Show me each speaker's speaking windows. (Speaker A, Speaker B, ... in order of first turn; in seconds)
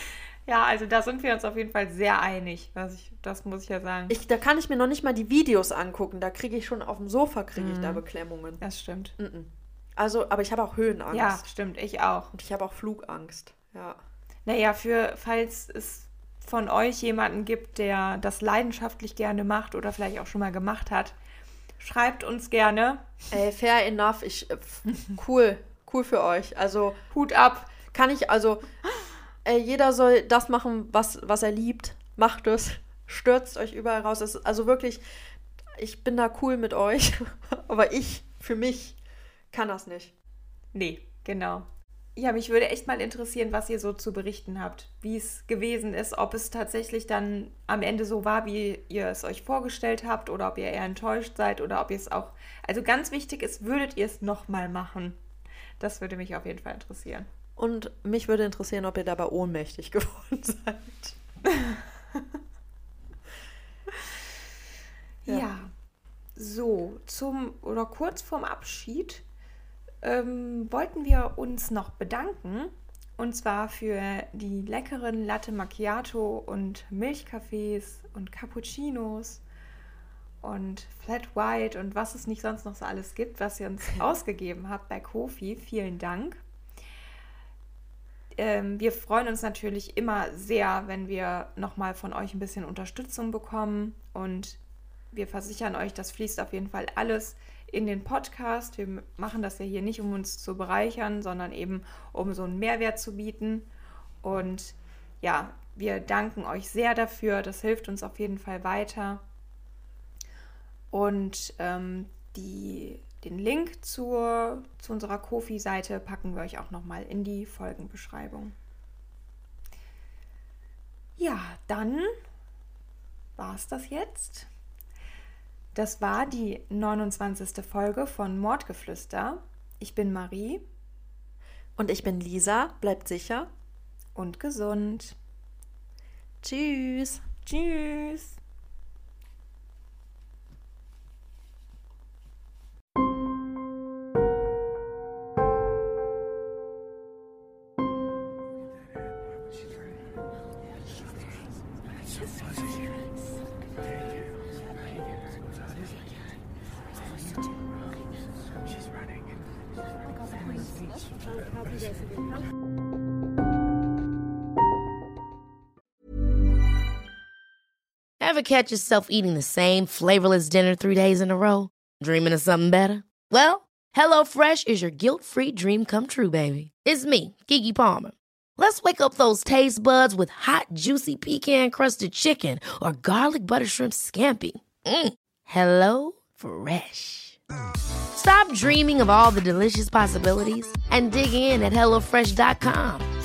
Speaker A: 0.5-4.2, 7.5-8.0, 8.6-9.2, 11.1-12.3, 14.5-21.2, 21.8-23.1, 27.1-27.8, 40.7-55.2, 55.8-57.3, 65.2-65.7, 66.4-69.2, 70.0-79.4, 80.4-86.4, 88.4-94.6, 95.1-103.7, 104.2-109.2, 110.9-118.5, 121.2-122.1, 123.4-124.5, 125.7-130.6, 134.2-135.2, 137.5-138.4
Speaker B: 4.1-8.6, 9.2-11.4, 12.3-14.0, 23.3-27.0, 27.9-28.7, 29.4-35.0, 35.8-39.0, 39.5-40.1, 57.6-61.2, 131.8-133.5, 136.4-137.2
Speaker C: 168.2-187.4, 188.1-193.1